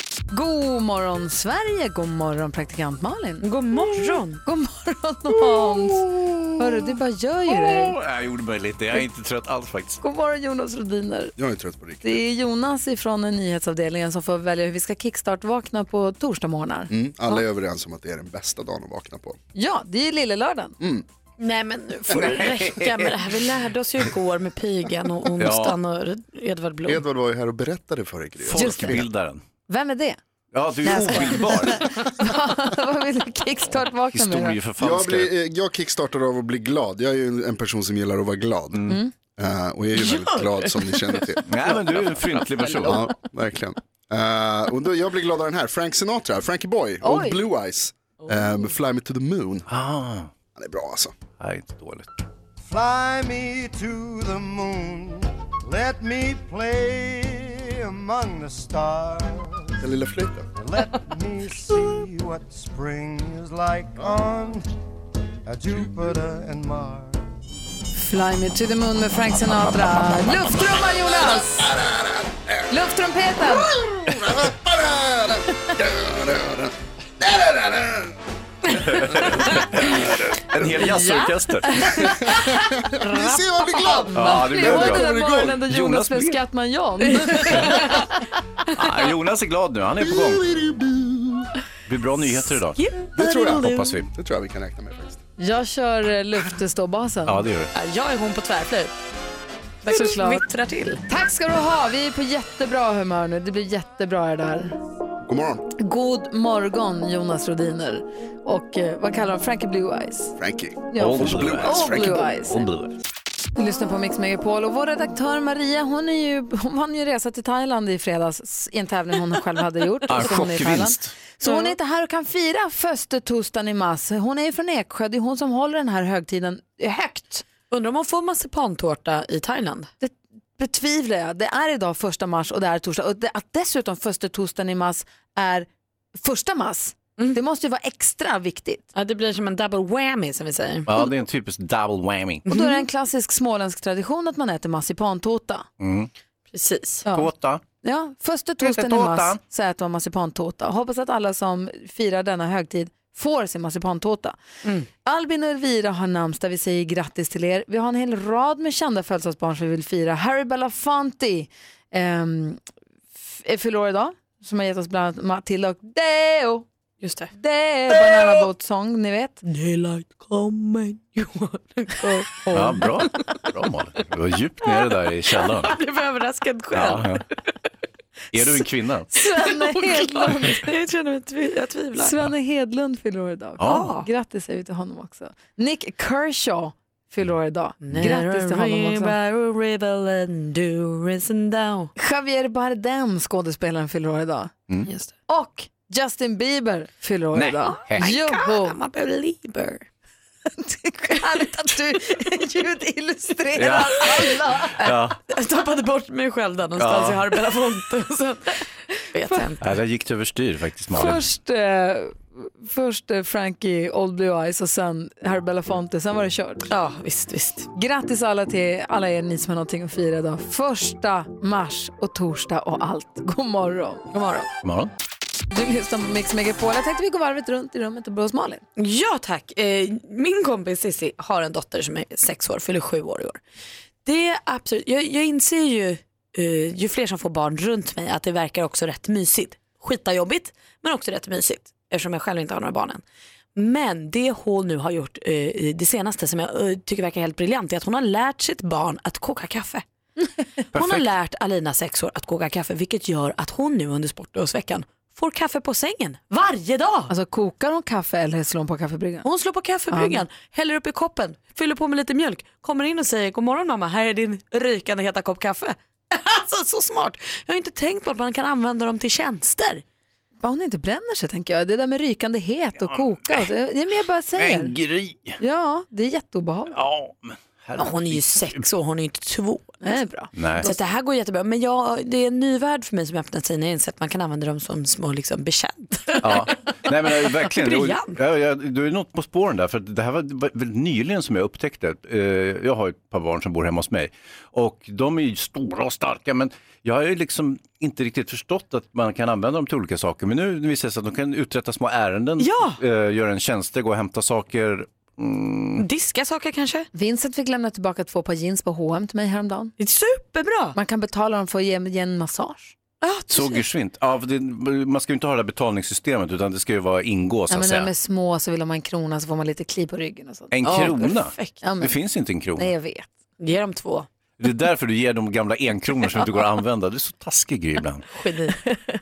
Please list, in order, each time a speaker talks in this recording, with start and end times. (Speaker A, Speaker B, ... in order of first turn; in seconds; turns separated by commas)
Speaker A: 0.3-3.5, Speaker B: 3.4-4.4, Speaker A: 4.4-8.0, Speaker C: 7.5-10.0, Speaker A: 10.0-11.3, Speaker D: 11.4-12.2, Speaker A: 12.0-17.4, Speaker D: 16.9-19.4, Speaker A: 19.5-20.7, Speaker D: 20.8-21.0, Speaker B: 21.4-27.0, Speaker C: 22.2-23.1, Speaker C: 25.4-25.8, Speaker D: 26.9-29.0, Speaker C: 28.4-29.4, Speaker A: 28.5-29.1, Speaker A: 29.7-30.2, Speaker C: 30.5-31.8, Speaker A: 30.8-34.6, Speaker C: 34.1-35.3, Speaker D: 34.8-38.8, Speaker D: 39.4-41.7, Speaker B: 40.0-41.1, Speaker C: 41.5-43.0, Speaker D: 42.8-49.6, Speaker A: 47.0-47.4, Speaker B: 48.2-48.7, Speaker C: 49.7-50.3, Speaker D: 50.5-51.1, Speaker C: 51.4-52.1, Speaker E: 52.6-59.8, Speaker D: 59.8-60.5, Speaker E: 60.5-64.7, Speaker E: 65.5-67.2, Speaker A: 68.0-71.7, Speaker D: 71.6-72.2, Speaker A: 72.7-73.7, Speaker D: 73.8-78.1, Speaker C: 78.9-79.3, Speaker C: 79.8-82.0, Speaker B: 81.8-82.3, Speaker D: 82.0-85.6, Speaker B: 83.0-84.1, Speaker C: 84.1-86.4, Speaker A: 84.3-88.0, Speaker B: 87.1-88.0, Speaker C: 88.7-90.5, Speaker D: 90.2-91.5, Speaker C: 91.9-92.8, Speaker B: 92.8-94.0, Speaker D: 93.2-95.2, Speaker C: 93.6-94.0, Speaker A: 95.4-97.4, Speaker C: 97.2-97.7, Speaker B: 97.7-98.9, Speaker B: 99.8-101.0, Speaker A: 99.9-100.4, Speaker A: 101.1-104.7, Speaker D: 105.2-105.6, Speaker A: 105.8-110.3, Speaker D: 110.4-112.3, Speaker A: 110.9-112.6, Speaker C: 111.0-112.9, Speaker A: 113.5-127.5, Speaker C: 120.1-121.1, Speaker B: 121.5-121.7, Speaker B: 127.7-129.9, Speaker A: 130.0-138.8, Speaker B: 138.9-141.0, Speaker C: 140.9-142.4, Speaker B: 142.5-142.8, Speaker A: 142.5-145.7, Speaker C: 145.8-146.1, Speaker B: 146.5-147.0, Speaker C: 147.1-147.6, Speaker A: 147.8-154.3, Speaker C: 148.6-149.4, Speaker A: 155.0-162.6, Speaker A: 163.1-166.7, Speaker B: 167.0-167.3, Speaker A: 167.3-169.4, Speaker B: 169.4-173.1, Speaker C: 172.5-175.8, Speaker B: 175.3-177.2, Speaker C: 176.7-177.2, Speaker C: 178.3-179.1, Speaker A: 179.1-180.7, Speaker B: 179.3-182.2, Speaker A: 181.9-189.1, Speaker C: 183.6-183.9, Speaker B: 183.6-184.1, Speaker B: 187.8-191.9, Speaker A: 192.0-194.5, Speaker A: 195.1-198.8, Speaker C: 197.3-198.1, Speaker B: 198.0-199.8, Speaker A: 200.5-204.8, Speaker B: 201.3-201.7, Speaker C: 203.6-205.2, Speaker B: 204.8-209.8, Speaker C: 206.8-207.3, Speaker C: 209.6-211.2, Speaker A: 210.9-216.7, Speaker B: 216.7-217.7, Speaker A: 217.7-224.0, Speaker B: 224.1-224.5, Speaker C: 224.6-224.9, Speaker A: 225.5-228.6, Speaker B: 228.8-233.4, Speaker B: 234.0-243.0, Speaker B: 243.6-249.8, Speaker B: 250.7-257.1, Speaker C: 250.7-251.1, Speaker A: 257.1-259.2, Speaker B: 259.2-269.8, Speaker A: 259.9-260.2, Speaker A: 270.4-274.7, Speaker C: 274.4-275.4, Speaker A: 275.4-276.8, Speaker C: 276.7-278.6, Speaker B: 277.8-279.8, Speaker A: 279.8-280.8, Speaker C: 280.3-280.7, Speaker B: 280.6-286.5, Speaker C: 286.2-305.8, Speaker B: 287.1-288.2, Speaker B: 302.4-302.8, Speaker B: 305.8-306.9, Speaker A: 306.9-309.7, Speaker B: 309.8-310.8, Speaker A: 310.7-312.7, Speaker B: 313.0-313.6, Speaker C: 313.3-317.9, Speaker A: 317.5-320.9, Speaker C: 320.5-322.7, Speaker B: 320.6-321.6, Speaker A: 321.6-321.9, Speaker A: 322.5-323.1, Speaker B: 323.4-324.1, Speaker C: 324.4-328.0, Speaker B: 328.1-328.6